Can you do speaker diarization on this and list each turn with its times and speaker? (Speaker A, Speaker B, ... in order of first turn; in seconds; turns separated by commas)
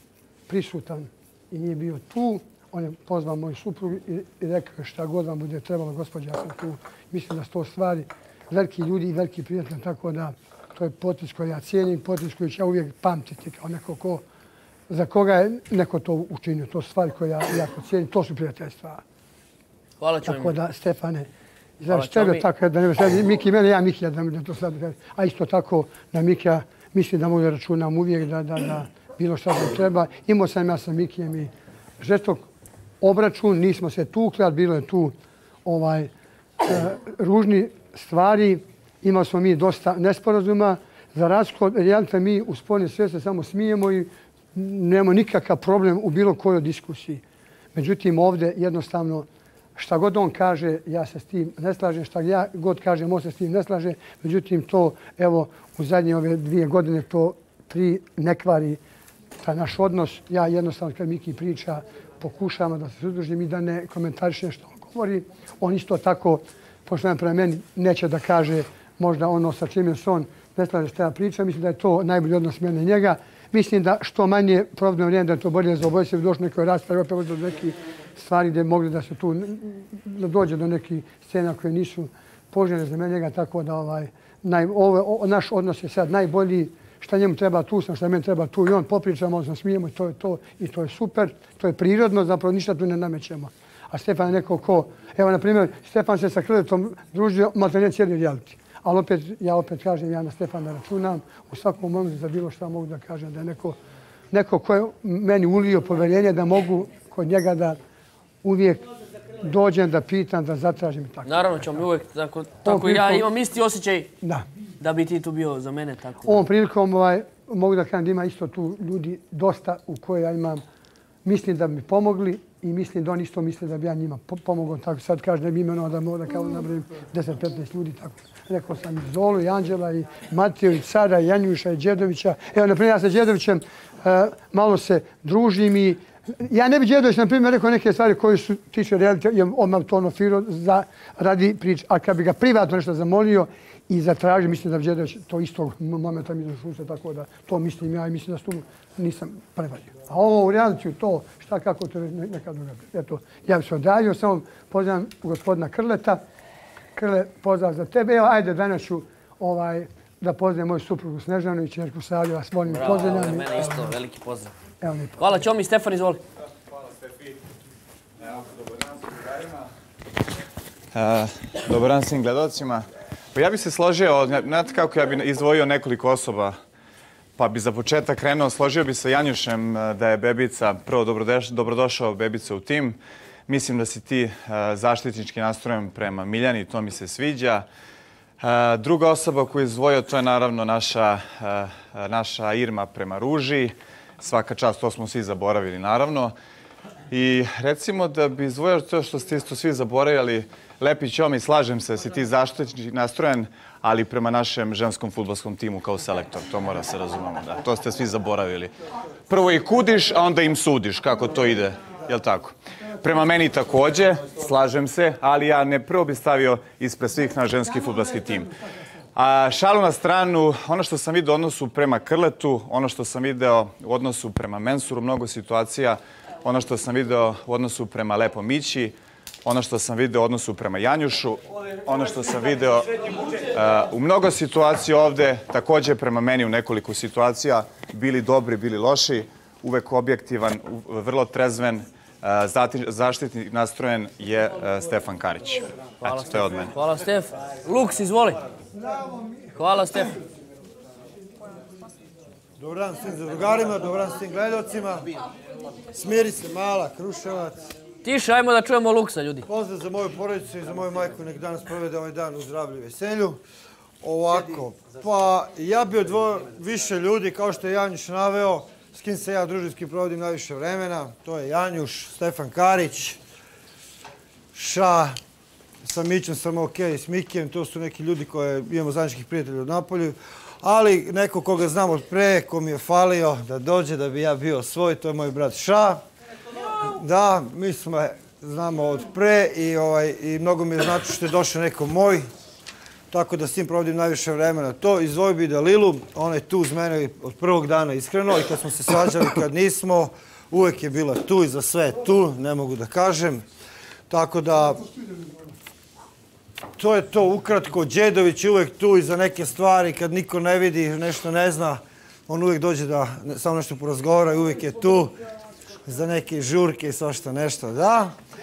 Speaker A: 0.5-14.2, Speaker A: 14.9-19.0, Speaker B: 20.0-20.6, Speaker A: 20.2-21.3, Speaker A: 21.8-32.5, Speaker B: 21.9-22.5, Speaker A: 33.0-35.1, Speaker A: 35.6-36.1, Speaker A: 36.6-47.2, Speaker A: 47.7-58.8, Speaker A: 59.4-103.8, Speaker A: 104.3-107.8, Speaker A: 108.4-108.8, Speaker A: 109.4-111.3, Speaker B: 111.2-114.1, Speaker A: 112.7-113.3, Speaker B: 114.8-116.5, Speaker A: 116.2-120.6, Speaker A: 121.2-156.2, Speaker A: 157.0-163.7, Speaker B: 162.7-164.5, Speaker A: 164.8-165.2, Speaker B: 165.2-166.2, Speaker C: 168.2-169.6, Speaker C: 170.9-176.6, Speaker C: 177.4-187.7, Speaker C: 188.4-196.3, Speaker C: 197.1-208.7, Speaker C: 209.3-218.5, Speaker C: 219.2-246.7, Speaker B: 246.1-248.4, Speaker A: 248.8-249.6, Speaker B: 249.6-250.2, Speaker D: 252.6-255.1, Speaker D: 255.9-257.7, Speaker B: 258.0-259.4, Speaker D: 259.5-263.4, Speaker D: 264.0-273.2, Speaker D: 274.5-275.2, Speaker D: 275.8-286.0, Speaker D: 286.8-292.3, Speaker D: 293.1-303.4, Speaker D: 304.1-304.9, Speaker D: 306.8-315.1, Speaker D: 315.9-318.1